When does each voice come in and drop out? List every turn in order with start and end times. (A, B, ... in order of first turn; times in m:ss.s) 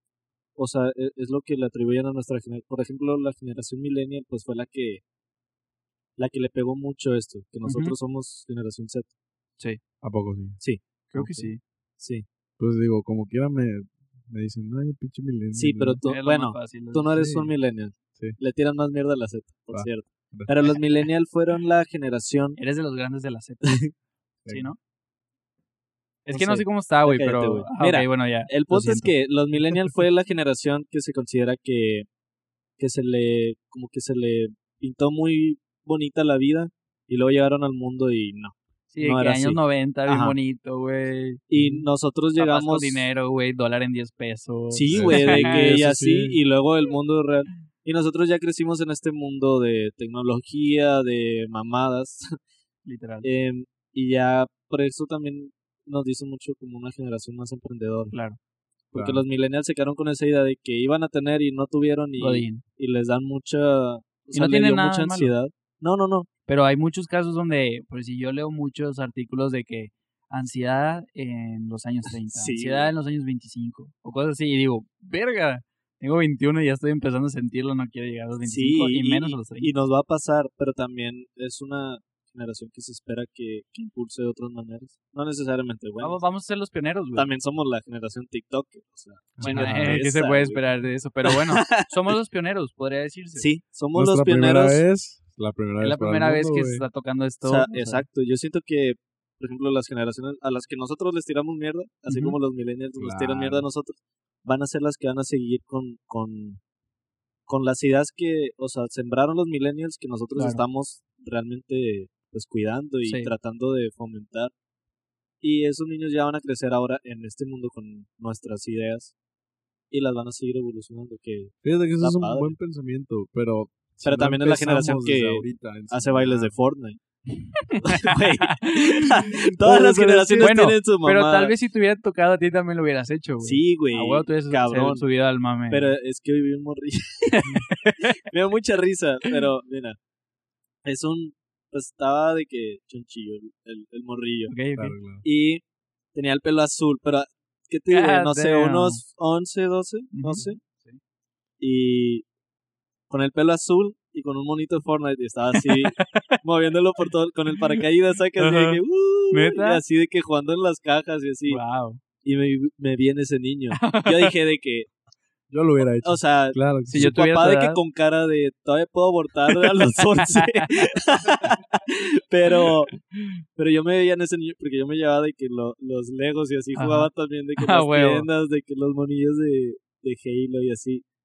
0:00.6-0:05.0 A
0:06.2-0:09.1 A
0:07.6-0:08.0 B
0:10.0-0:10.6 C
0:10.6-0:11.4 A
0:11.1-0:11.6 B
0:11.2-0:11.5 C
0:12.0-0:12.2 A
0:12.6-0:16.0 C
0:15.5-0:22.6 A
0:16.1-0:17.3 B
0:17.2-0:17.4 C
0:19.7-0:20.5 C
0:22.6-0:23.8 B
0:23.6-0:23.9 A
0:24.4-0:24.7 C
0:24.5-0:24.8 B
0:26.2-0:29.1 B
0:26.3-0:32.1 A
0:32.8-0:40.4 A
0:38.9-0:41.4 B
0:41.5-0:43.1 A
0:41.5-0:41.9 C
0:42.4-0:45.7 B
0:44.7-0:52.4 A
0:44.9-0:46.4 C
0:52.8-0:53.3 B
0:53.2-0:58.1 A
0:58.1-0:58.4 B
0:58.9-1:06.3 A
0:58.9-0:59.2 C
1:02.2-1:02.6 B
1:04.3-1:05.3 B
1:06.5-1:19.7 B
1:12.3-1:12.9 A
1:18.4-1:26.2 A
1:26.0-1:27.3 B
1:27.1-1:30.6 A
1:29.4-1:30.0 C
1:29.4-1:33.5 B
1:31.2-1:31.9 A
1:33.4-1:34.8 A
1:33.9-1:36.8 C
1:35.8-1:38.0 B
1:37.4-1:46.6 A
1:42.1-1:42.4 B
1:43.0-1:43.6 C
1:47.5-1:54.5 A
1:50.4-1:50.6 B
1:53.0-1:53.3 B
1:55.4-1:59.1 A
1:59.9-2:02.5 A
2:01.6-2:06.6 C
2:04.0-2:07.0 A
2:07.5-2:08.9 B
2:07.8-2:11.5 A
2:09.6-2:10.6 C
2:10.4-2:15.9 B
2:13.4-2:15.1 A
2:15.7-2:17.7 A
2:17.4-2:18.1 B
2:18.2-2:20.0 A
2:20.8-2:24.5 A
2:24.5-2:24.9 B
2:24.8-2:25.2 C
2:25.2-2:25.6 A
2:26.1-2:30.6 A
2:27.9-2:29.0 B
2:30.1-2:31.0 B
2:31.6-2:32.2 A
2:33.1-2:41.6 A
2:35.6-2:36.4 B
2:38.4-2:38.8 B
2:39.3-2:39.8 B
2:41.5-2:42.0 B
2:42.2-2:44.9 A
2:43.8-2:44.3 B
2:45.5-2:47.1 C
2:46.0-2:52.9 A
2:46.9-2:47.8 B
2:49.7-2:50.7 B
2:53.6-3:01.0 A
2:56.8-2:58.3 B